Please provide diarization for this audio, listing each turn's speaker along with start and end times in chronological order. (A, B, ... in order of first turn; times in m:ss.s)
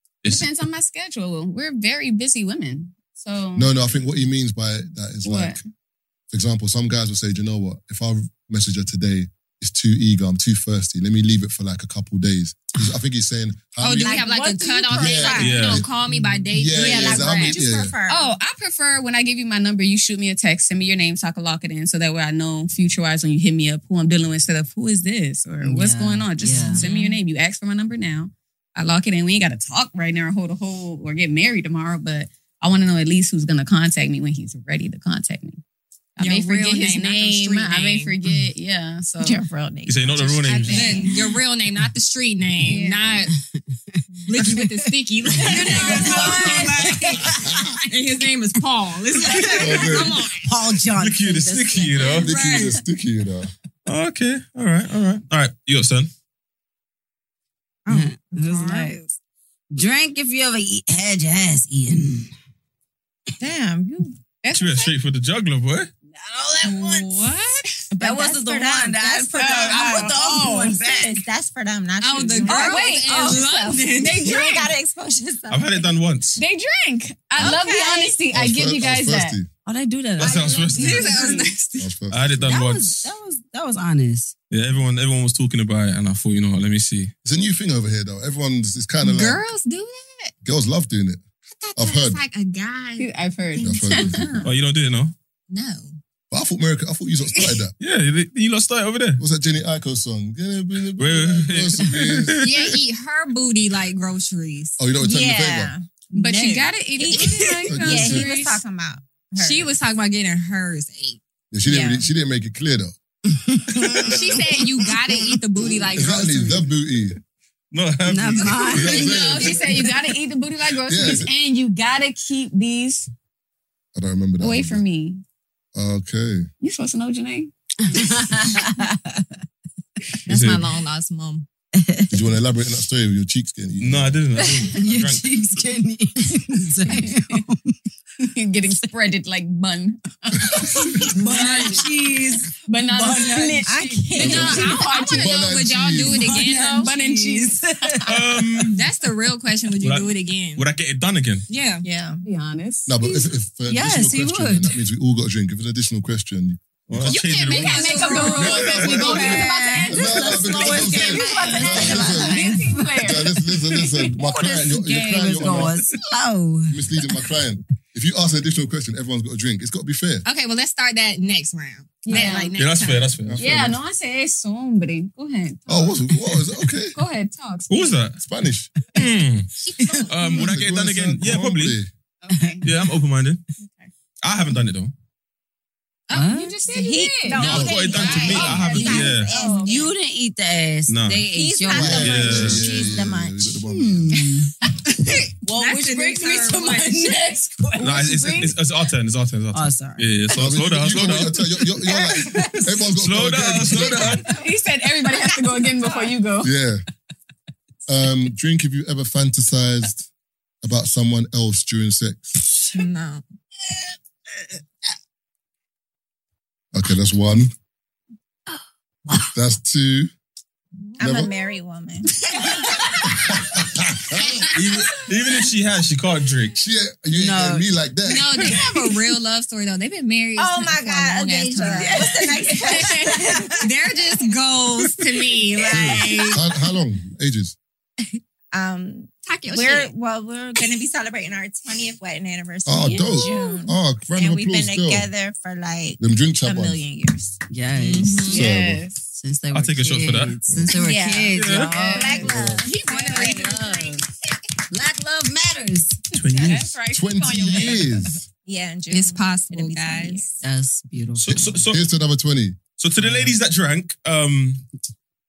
0:00.2-0:00.6 A
0:00.3-0:03.7 B
0:03.6-0:05.6 C
0:05.2-0:05.6 B
0:06.3-0:14.2 C
0:13.8-0:17.6 D
0:14.0-0:15.8 E
0:14.9-0:15.9 C
0:15.4-0:15.8 A
0:16.5-0:18.0 C
0:16.7-0:18.3 E
0:18.1-0:35.6 B
0:25.6-0:26.8 F
0:26.6-0:27.2 D
0:36.2-0:39.4 B
0:36.2-0:38.2 D
0:39.2-0:41.1 E
0:39.9-0:41.0 A
0:40.5-0:41.1 B
0:40.7-0:43.3 D
0:42.6-0:43.1 B
0:44.3-0:47.3 D
0:44.3-0:44.8 F
0:45.3-0:47.8 F
0:47.8-0:50.5 D
0:49.2-0:52.2 F
0:49.6-0:50.2 C
0:51.0-0:52.3 A
0:52.0-0:52.8 D
0:52.2-0:53.5 C
0:53.9-0:56.1 A
0:57.9-0:59.0 D
0:57.9-0:59.0 F
0:59.7-1:02.3 F
1:03.4-1:04.1 E
1:04.4-1:04.9 B
1:04.5-1:05.9 A
1:06.1-1:07.4 F
1:06.7-1:07.1 B
1:07.0-1:07.6 D
1:08.0-1:11.2 F
1:08.0-1:13.4 E
1:09.4-1:10.7 B
1:12.0-1:14.4 D
1:12.4-1:14.7 B
1:14.0-1:15.9 E
1:15.5-1:16.4 A
1:16.4-1:19.4 B
1:17.4-1:18.2 E
1:18.3-1:19.5 C
1:19.6-1:21.5 F
1:20.2-1:21.2 A
1:20.5-1:21.9 D
1:21.8-1:22.5 C
1:22.1-1:23.1 A
1:22.4-1:24.3 F
1:24.5-1:27.1 A
1:27.2-1:29.4 C
1:29.0-1:30.3 D
1:30.4-1:31.2 C
1:31.5-1:34.5 D
1:31.8-1:32.2 C
1:33.0-1:34.4 B
1:33.6-1:34.4 C
1:34.4-1:35.1 A
1:35.5-1:36.0 D
1:36.3-1:37.7 C
1:37.8-1:39.2 A
1:39.2-1:42.4 C
1:41.0-1:42.8 A
1:42.4-1:44.8 D
1:44.8-1:45.7 C
1:45.0-1:45.9 E
1:46.1-1:47.6 D
1:46.1-1:48.6 B
1:47.0-1:49.7 E
1:47.7-1:48.3 C
1:49.4-1:51.2 D
1:51.5-1:52.9 C
1:53.3-1:55.1 F
1:54.0-1:56.7 D
1:55.9-1:57.2 C
1:57.7-1:58.9 A
1:58.1-1:59.4 F
1:58.7-1:59.7 C
1:58.8-2:03.1 B
2:00.9-2:01.3 C
2:04.0-2:04.8 C
2:04.4-2:05.2 B
2:05.8-2:06.5 C
2:06.6-2:08.8 B
2:07.9-2:09.2 F
2:10.3-2:11.5 D
2:10.3-2:10.6 A
2:11.8-2:12.2 F
2:12.1-2:14.2 C
2:13.8-2:15.2 A
2:14.7-2:17.7 F
2:16.9-2:17.4 B
2:18.2-2:21.9 B
2:20.5-2:24.7 F
2:21.3-2:21.8 D
2:22.6-2:25.5 B
2:23.6-2:25.0 E
2:24.2-2:26.9 D
2:24.2-2:26.4 C
2:26.2-2:28.2 F
2:26.4-2:28.2 B
2:28.1-2:28.8 A
2:28.7-2:30.6 D
2:29.8-2:31.5 A
2:31.5-2:31.8 D
2:31.8-2:32.2 E
2:32.2-2:33.0 B
2:32.9-2:37.2 C
2:33.0-2:34.8 F
2:36.9-2:39.3 A
2:37.1-2:39.8 D
2:37.5-2:43.9 B
2:38.4-2:45.9 C
2:38.9-2:43.0 F
2:44.0-2:46.8 F
2:46.7-2:50.2 C
2:50.2-2:53.1 D
2:52.1-2:52.6 B
2:52.6-2:53.5 A
2:53.2-2:53.8 C
2:53.4-2:56.4 B
2:55.7-2:57.0 C
2:56.9-2:58.0 B
2:57.7-2:58.2 A
2:58.2-2:58.7 C
2:59.0-2:59.5 A
2:59.6-3:00.1 D
3:00.1-3:01.8 A
3:00.3-3:01.9 C
3:02.2-3:02.7 B
3:02.3-3:02.8 F
3:02.6-3:03.4 A
3:03.6-3:03.9 B
3:04.2-3:04.9 A
3:06.1-3:06.7 D
3:06.1-3:06.6 F
3:06.3-3:09.9 B
3:06.8-3:09.9 E
3:07.3-3:08.8 D
3:07.4-3:09.3 A
3:08.8-3:13.1 F
3:10.9-3:12.7 A
3:11.3-3:13.5 E
3:11.7-3:14.2 C
3:13.6-3:14.5 F
3:15.0-3:17.2 D
3:15.4-3:18.4 F
3:17.8-3:18.6 B
3:17.8-3:21.4 A
3:19.5-3:20.1 F
3:20.3-3:24.3 C
3:21.8-3:22.1 F
3:22.9-3:24.3 A
3:24.3-3:26.5 B
3:26.4-3:26.8 C
3:27.9-3:30.1 C
3:30.6-3:32.4 C
3:32.7-3:33.2 D
3:36.7-3:37.5 C
3:38.5-3:39.3 F
3:39.3-3:40.1 C
3:41.0-3:42.1 E
3:41.0-3:41.3 C
3:42.5-3:43.0 F
3:43.2-3:44.5 C
3:44.5-3:46.6 A
3:46.6-3:48.6 C
3:47.1-3:47.7 F
3:48.1-3:52.1 D
3:50.4-3:53.5 E
3:51.7-3:53.6 F
3:52.7-3:53.3 B
3:53.6-3:56.4 D
3:55.7-3:56.1 E
3:56.3-3:57.6 C
3:58.5-4:07.4 E
3:59.2-3:59.9 D
4:02.6-4:05.1 C
4:06.0-4:06.8 C
4:07.5-4:08.4 F
4:07.8-4:08.4 D
4:08.3-4:09.1 B
4:08.3-4:08.8 C
4:09.2-4:13.5 F
4:09.5-4:10.4 A
4:10.8-4:14.0 E
4:11.3-4:11.7 A
4:11.6-4:12.4 B
4:12.2-4:12.6 C
4:12.6-4:13.8 D
4:12.9-4:13.9 B
4:14.7-4:16.0 F
4:16.1-4:16.8 A
4:16.2-4:18.1 B
4:16.9-4:18.2 C
4:18.4-4:20.3 E
4:18.9-4:20.3 D
4:20.4-4:21.6 F
4:21.2-4:21.8 A
4:21.6-4:22.6 C
4:22.8-4:24.6 A
4:23.0-4:23.3 F